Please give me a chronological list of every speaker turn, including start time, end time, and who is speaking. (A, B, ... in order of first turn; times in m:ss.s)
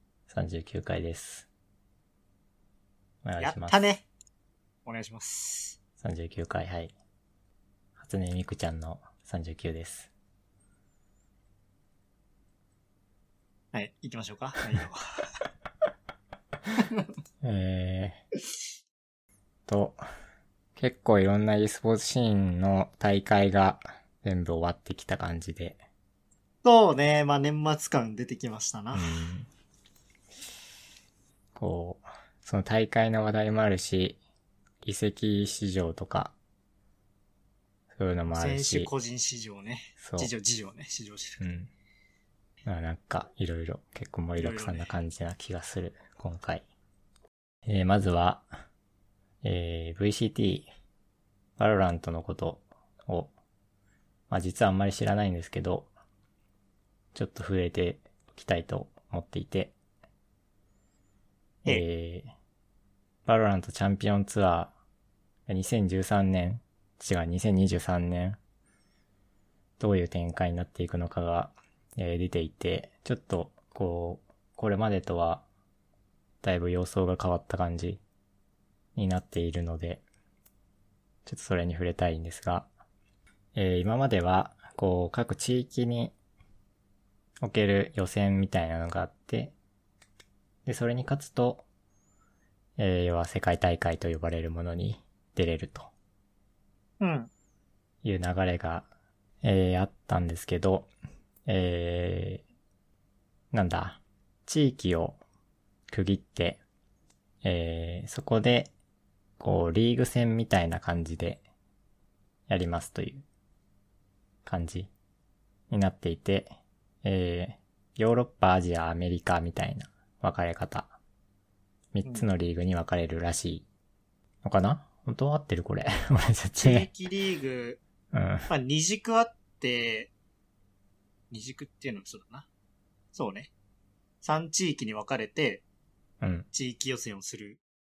0:00.3-0:01.5 A
0:03.2-0:03.8 A
0:03.4-0:04.0 B
0:04.8-0:05.8 B
0:06.0-0:06.9 A
0:08.0-0:10.1 A
0:13.7-0:15.3 B
0:17.4-0:18.2 A
0:19.7-0:20.0 A
0:20.8-0:25.8 A
0:26.6-0:29.2 B
0:28.9-0:29.5 A
0:31.6-0:34.2 A
0:34.8-0:36.3 A
0:37.9-0:38.9 A
0:38.3-0:41.4 B
0:40.0-0:40.3 A
0:41.4-0:41.7 A
0:42.6-0:46.6 A
0:44.4-0:44.9 B
0:47.7-0:48.4 A
0:49.4-0:50.7 A
0:51.6-0:53.3 A
0:54.3-0:55.9 A
0:57.1-0:59.8 A
1:01.6-1:02.3 A
1:03.2-1:04.7 A
1:05.5-1:08.4 A
1:09.8-1:15.4 A
1:16.4-1:18.0 A
1:19.0-1:20.0 A
1:21.2-1:22.7 A
1:23.5-1:26.1 A
1:27.4-1:29.5 A
1:30.6-1:31.6 A
1:32.8-1:35.9 A
1:37.0-1:37.3 B
1:38.0-1:38.9 A
1:39.4-1:40.9 A
1:41.4-1:42.4 A
1:43.5-1:45.2 A
1:45.9-1:46.6 A
1:47.4-1:48.7 A
1:49.4-1:51.4 A
1:52.5-1:53.2 A
1:54.4-1:54.9 A
1:55.7-1:56.5 A
1:57.0-2:00.9 A
2:01.9-2:03.6 A
2:04.4-2:06.9 A
2:06.6-2:07.8 B
2:08.1-2:08.5 A
2:08.5-2:10.1 B
2:11.3-2:12.5 B
2:13.1-2:13.5 B
2:14.2-2:15.6 B
2:16.2-2:16.5 A
2:16.5-2:17.6 B